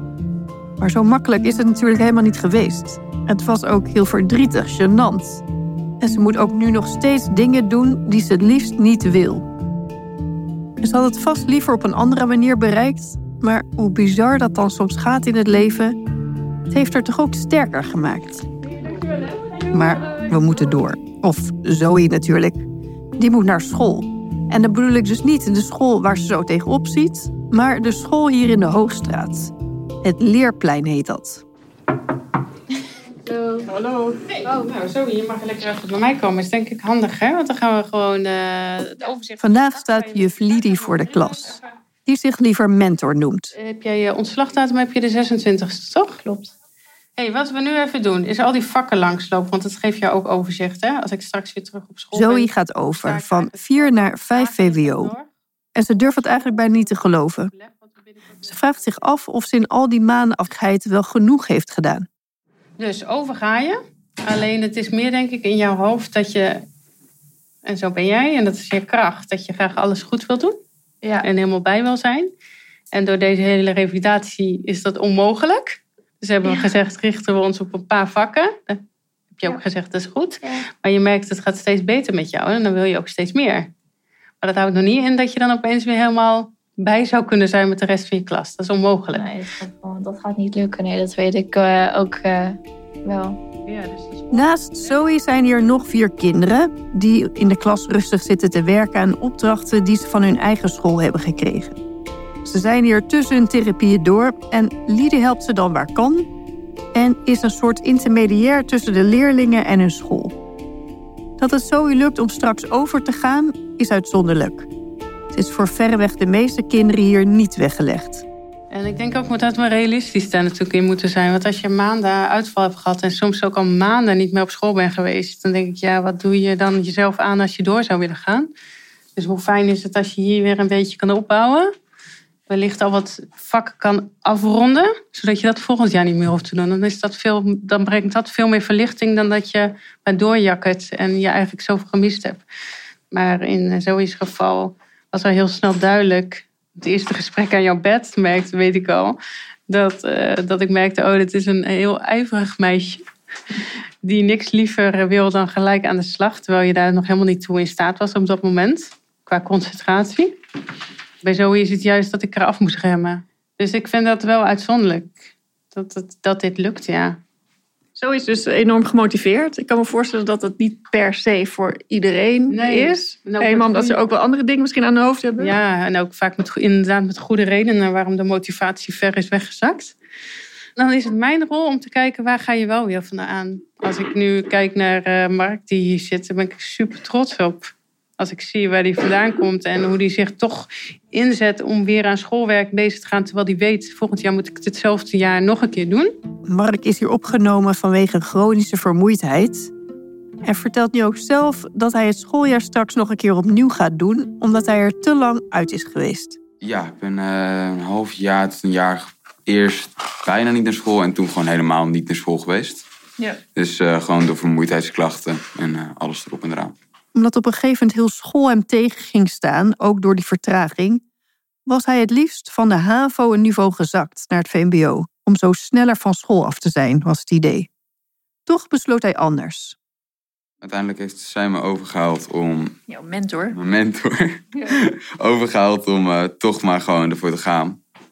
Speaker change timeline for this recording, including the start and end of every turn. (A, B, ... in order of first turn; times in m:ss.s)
0:00.8-0:05.4 A
0:06.0-0:09.5 A
0:10.8-0:16.0 A
0:16.7-0:18.5 A
0:18.7-0:20.4 B
0:19.7-0:31.4 A
0:33.3-0:33.6 C
0:33.9-0:41.6 D
0:39.4-0:43.5 A
0:43.5-0:46.5 D
0:47.2-0:55.3 D
0:52.1-0:55.1 A
0:55.8-0:57.5 A
0:56.0-0:58.9 D
0:58.5-1:02.1 A
1:02.8-1:06.6 D
1:07.6-1:10.6 D
1:11.2-1:12.3 D
1:12.9-1:18.8 D
1:19.3-1:23.7 D
1:24.4-1:29.3 D
1:29.1-1:33.4 C
1:33.6-1:35.0 D
1:34.3-1:41.8 A
1:42.4-1:46.3 A
1:46.9-1:50.4 A
1:51.4-1:54.7 A
1:55.3-1:58.2 A
1:58.7-2:08.5 D
2:09.2-2:11.7 D
2:12.5-2:22.4 D
2:23.1-2:33.1 D
2:34.0-2:40.4 D
2:41.2-2:47.2 D
2:48.0-2:55.5 B
2:52.5-2:54.0 D
2:55.4-3:00.0 D
3:00.8-3:16.2 D
3:16.5-3:19.7 A
3:20.4-3:26.4 A
3:26.6-3:32.8 E
3:33.6-3:36.7 E
3:37.1-3:41.0 A
3:41.6-3:47.7 A
3:48.5-3:49.8 A
3:50.6-3:52.7 E
3:52.9-3:53.5 B
3:53.5-3:57.8 E